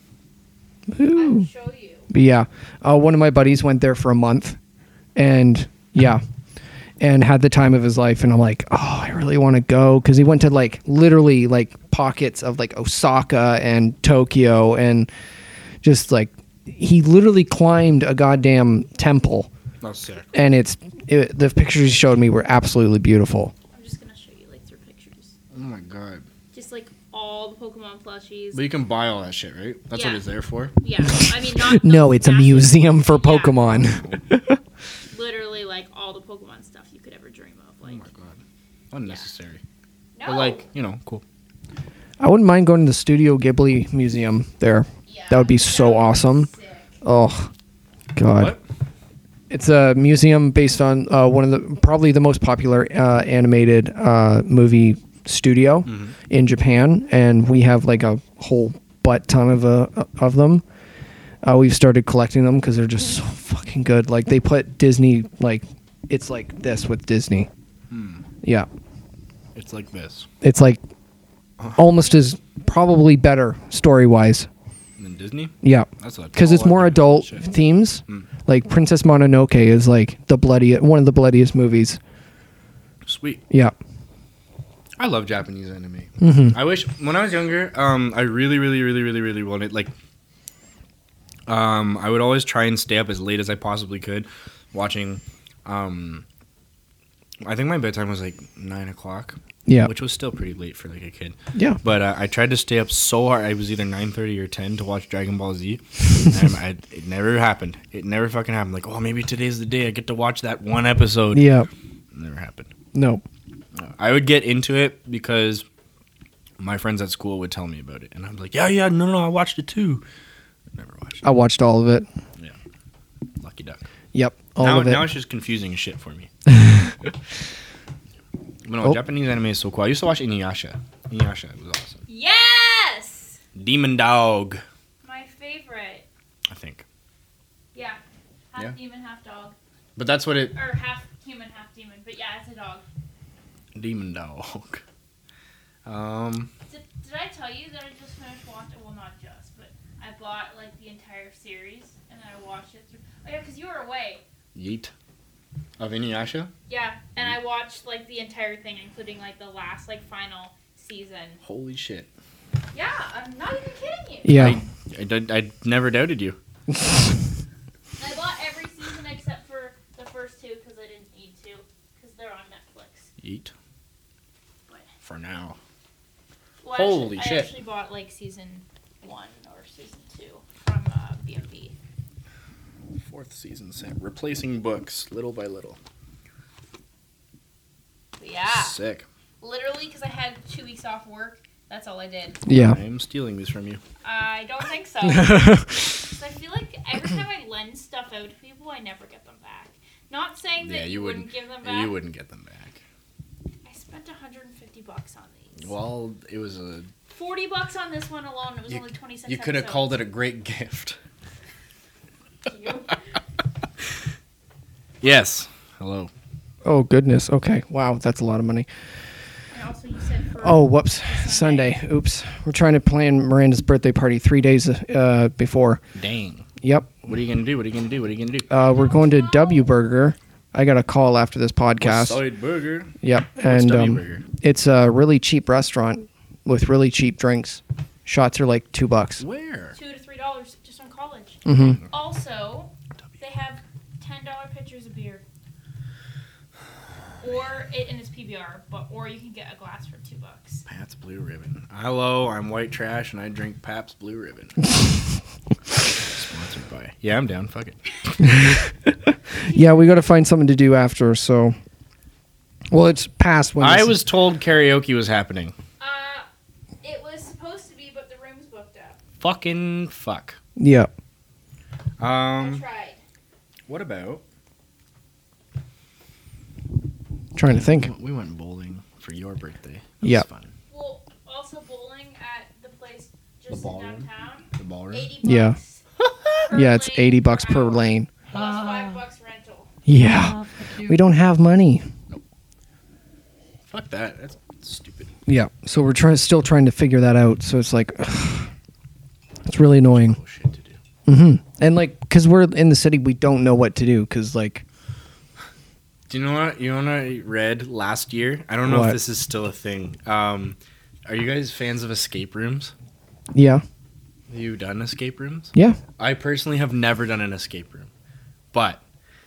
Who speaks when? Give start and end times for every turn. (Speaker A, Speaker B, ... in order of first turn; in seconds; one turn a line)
Speaker A: 0.9-1.4
Speaker B: 1.1-2.1
Speaker A: 2.1-4.6
Speaker A: 5.2-6.2
Speaker A: 7.0-15.1
Speaker A: 15.8-19.5
Speaker C: 19.8-20.3
Speaker A: 20.3-23.5
Speaker B: 23.7-25.3
Speaker C: 25.5-26.2
Speaker B: 26.5-28.6
Speaker C: 28.5-30.7
Speaker B: 29.9-30.2
Speaker B: 30.7-33.7
Speaker A: 31.0-34.6
Speaker C: 33.8-34.2
Speaker B: 35.1-38.1
Speaker C: 37.8-38.4
Speaker C: 38.9-39.6
Speaker B: 40.1-40.6
Speaker C: 40.2-41.2
Speaker A: 42.2-46.5
Speaker B: 45.1-46.9
Speaker A: 47.0-47.5
Speaker A: 48.1-48.5
Speaker C: 48.3-48.6
Speaker A: 49.5-60.6
Speaker C: 55.9-56.1
Speaker A: 61.4-67.5
Speaker C: 67.9-68.2
Speaker C: 69.5-70.3
Speaker A: 70.4-70.8
Speaker A: 71.8-74.5
Speaker C: 75.0-77.5
Speaker A: 75.6-82.0
Speaker C: 83.0-83.4
Speaker A: 83.5-83.7
Speaker C: 85.0-89.9
Speaker A: 86.2-86.6
Speaker C: 91.5-96.2
Speaker C: 97.4-111.5
Speaker A: 99.7-99.9
Speaker A: 111.3-111.7
Speaker C: 112.1-112.7
Speaker A: 112.9-113.2
Speaker C: 113.7-115.7
Speaker C: 116.6-120.0
Speaker C: 120.7-121.2
Speaker A: 121.2-122.0
Speaker C: 123.4-123.8
Speaker A: 124.1-125.0
Speaker C: 124.6-126.3
Speaker A: 126.5-127.0
Speaker C: 128.7-132.0
Speaker B: 132.1-133.4
Speaker C: 133.6-134.6
Speaker B: 135.0-136.0
Speaker C: 136.5-136.8
Speaker B: 137.7-138.0
Speaker B: 138.5-139.6
Speaker C: 139.9-140.5
Speaker B: 140.5-142.8
Speaker C: 143.7-144.8
Speaker C: 145.8-146.5
Speaker B: 146.7-154.2
Speaker C: 154.5-154.9
Speaker C: 155.8-156.5
Speaker B: 156.7-161.4
Speaker C: 161.4-162.1
Speaker B: 162.7-164.5
Speaker A: 164.2-164.6
Speaker C: 164.3-166.4
Speaker B: 168.0-173.1
Speaker C: 173.2-173.5
Speaker C: 175.0-175.6
Speaker B: 176.6-181.7
Speaker C: 176.7-177.5
Speaker C: 183.1-185.8
Speaker B: 188.2-188.8
Speaker C: 188.5-189.1
Speaker B: 189.4-192.4
Speaker A: 192.4-192.8
Speaker C: 192.5-193.8
Speaker B: 194.0-201.9
Speaker A: 195.0-195.7
Speaker C: 200.6-202.8
Speaker B: 203.6-205.7
Speaker C: 205.6-206.9
Speaker B: 207.1-210.0
Speaker C: 208.7-211.0
Speaker B: 212.4-213.0
Speaker C: 215.0-216.1
Speaker A: 216.6-218.7
Speaker B: 219.5-221.8
Speaker A: 220.4-225.8
Speaker C: 225.9-226.5
Speaker A: 226.6-226.9
Speaker C: 227.1-228.5
Speaker A: 228.5-232.2
Speaker B: 228.5-229.7
Speaker C: 231.8-232.9
Speaker A: 233.0-239.2
Speaker C: 233.4-234.2
Speaker C: 239.2-239.8
Speaker B: 239.7-245.2
Speaker A: 241.4-241.8
Speaker C: 241.6-241.8
Speaker B: 247.2-250.6
Speaker C: 250.7-254.7
Speaker C: 255.9-258.3
Speaker B: 259.4-260.1
Speaker A: 259.4-261.6
Speaker A: 262.7-263.9
Speaker C: 263.6-265.5
Speaker B: 265.8-266.3
Speaker B: 266.8-269.0
Speaker C: 269.2-270.4
Speaker A: 270.6-270.9
Speaker C: 272.0-272.6
Speaker B: 272.4-273.0
Speaker C: 273.7-274.2
Speaker A: 277.3-277.9
Speaker C: 277.5-280.5
Speaker B: 280.7-285.8
Speaker C: 283.5-285.1
Speaker A: 285.2-285.6
Speaker B: 286.3-289.7
Speaker A: 286.5-288.1
Speaker C: 288.3-288.9
Speaker A: 289.9-291.8
Speaker C: 290.3-290.9
Speaker C: 293.7-295.1
Speaker A: 295.3-298.5
Speaker A: 299.5-300.2
Speaker C: 299.8-300.8
Speaker A: 301.1-304.6
Speaker C: 306.1-312.7
Speaker A: 308.6-309.0
Speaker A: 313.3-313.6
Speaker C: 314.3-317.9
Speaker C: 318.5-318.8